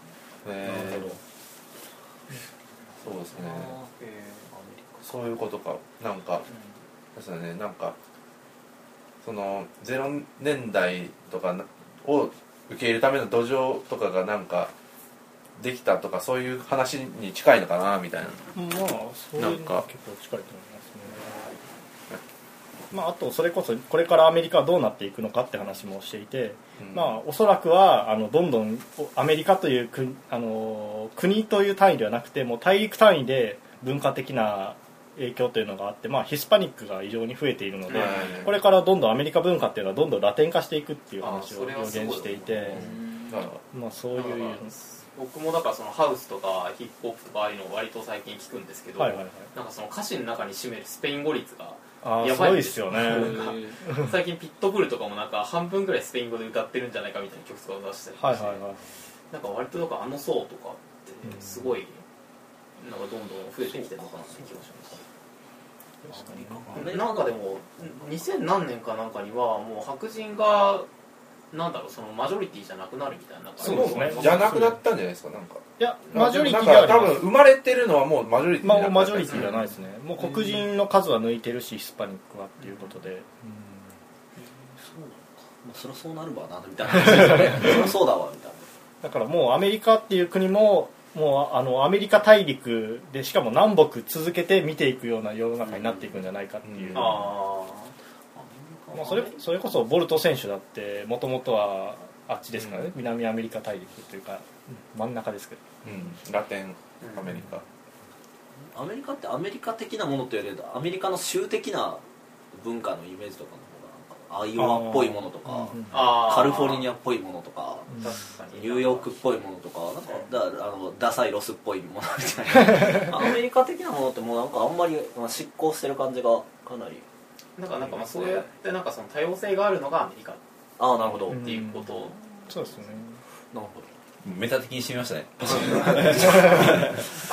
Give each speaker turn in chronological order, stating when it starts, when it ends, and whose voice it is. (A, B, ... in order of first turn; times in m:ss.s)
0:00.4-0:01.2 A
0:00.6-0:01.2 B
0:03.0-0:03.7 A
0:03.4-0:03.9 B
0:04.0-0:04.5 C
0:04.5-0:05.0 B
0:05.0-0:06.4 A
0:06.4-0:06.7 C
0:07.1-0:07.9 A
0:09.2-0:14.7 A
0:15.6-0:18.4 A
0:18.5-0:21.2 D
0:19.4-0:19.8 A
0:22.9-0:42.8 D
0:26.8-0:27.2 A
0:37.9-0:38.3 C
0:37.9-0:38.6 A
0:41.2-0:43.0 C
0:42.7-0:43.6 A
0:42.7-0:43.4 B
0:43.7-0:44.7 D
0:44.1-0:58.6 C
0:49.0-0:49.5 D
0:52.0-0:54.1 D
0:58.2-0:58.8 D
0:59.3-1:02.0 C
1:01.2-1:01.8 D
1:02.8-1:05.0 C
1:03.6-1:04.5 B
1:06.0-1:06.9 D
1:06.1-1:08.2 B
1:06.7-1:10.9 C
1:11.5-1:14.6 C
1:13.6-1:14.8 D
1:13.6-1:19.5 A
1:15.8-1:17.2 D
1:18.6-1:23.9 D
1:19.3-1:19.6 C
1:24.8-1:28.7 B
1:27.1-1:27.9 D
1:29.0-1:37.3 D
1:36.6-1:37.3 A
1:36.9-1:37.9 C
1:38.4-1:38.8 B
1:38.9-1:39.4 C
1:38.9-1:45.7 D
1:42.6-1:42.9 A
1:45.8-1:47.6 A
1:47.0-1:47.3 C
1:48.7-2:07.0 B
1:54.6-1:56.2 D
1:55.9-1:56.9 C
1:58.0-1:59.1 C
2:00.1-2:00.3 C
2:02.7-2:03.0 D
2:07.6-2:10.4 C
2:07.8-2:08.5 B
2:10.8-2:11.5 B
2:11.2-2:12.2 C
2:11.3-2:13.2 D
2:13.5-2:13.9 B
2:14.2-2:17.0 E
2:15.9-2:16.2 B